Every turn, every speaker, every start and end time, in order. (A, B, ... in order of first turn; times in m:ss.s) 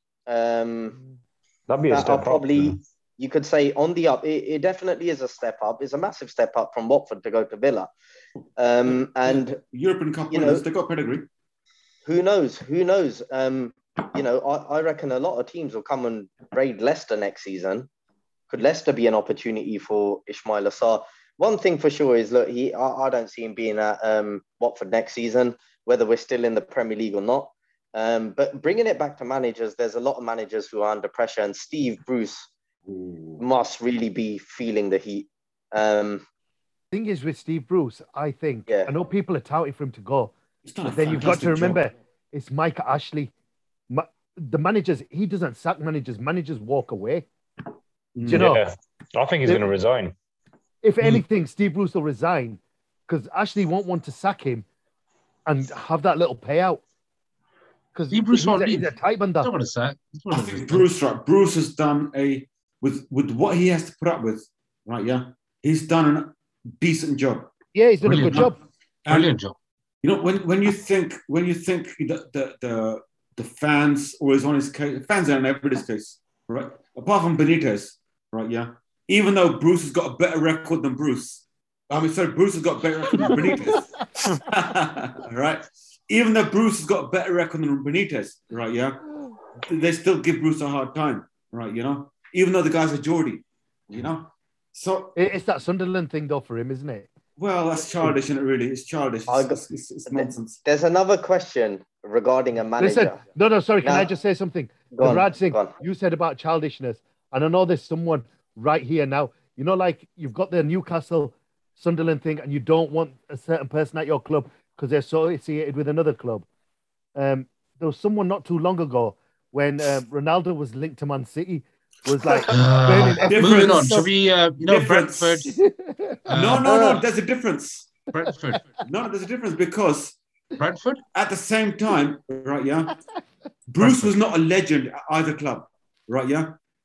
0:00.3-0:01.0 A
0:01.7-0:02.8 B
0:01.9-0:07.9 A
0:08.6-0:09.6 A
0:09.3-0:11.3 C
0:10.3-0:10.6 A
0:12.0-0:17.9 A
0:18.5-0:32.5 A
0:32.9-0:33.4 C
0:33.4-0:36.2 A
0:36.9-0:40.3 D
0:40.6-0:41.8 C
0:40.9-0:43.3 D
0:43.9-0:47.3 D
0:48.2-0:48.5 C
0:48.2-0:48.6 D
0:48.3-0:50.1 B
0:50.8-0:54.7 D
0:55.5-0:56.8 D
0:57.9-0:59.5 D
0:58.1-1:00.9 E
1:00.3-1:07.5 C
1:07.7-1:08.6 D
1:08.0-1:08.5 E
1:08.1-1:08.5 C
1:09.0-1:09.3 C
1:09.1-1:09.6 E
1:10.0-1:29.0 C
1:29.6-1:35.2 C
1:35.2-1:37.1 D
1:37.4-1:40.6 C
1:39.3-1:43.2 A
1:42.8-1:56.4 D
1:43.8-1:44.1 A
1:44.9-1:45.7 A
1:57.2-2:04.1 D
2:02.5-2:05.6 E
2:03.3-2:04.1 C
2:04.6-2:05.5 C
2:05.6-2:06.2 D
2:06.3-2:07.0 E
2:06.3-2:07.9 C
2:08.1-2:08.8 E
2:08.8-2:10.2 C
2:10.6-2:11.0 E
2:11.1-2:13.0 C
2:13.7-2:16.6 C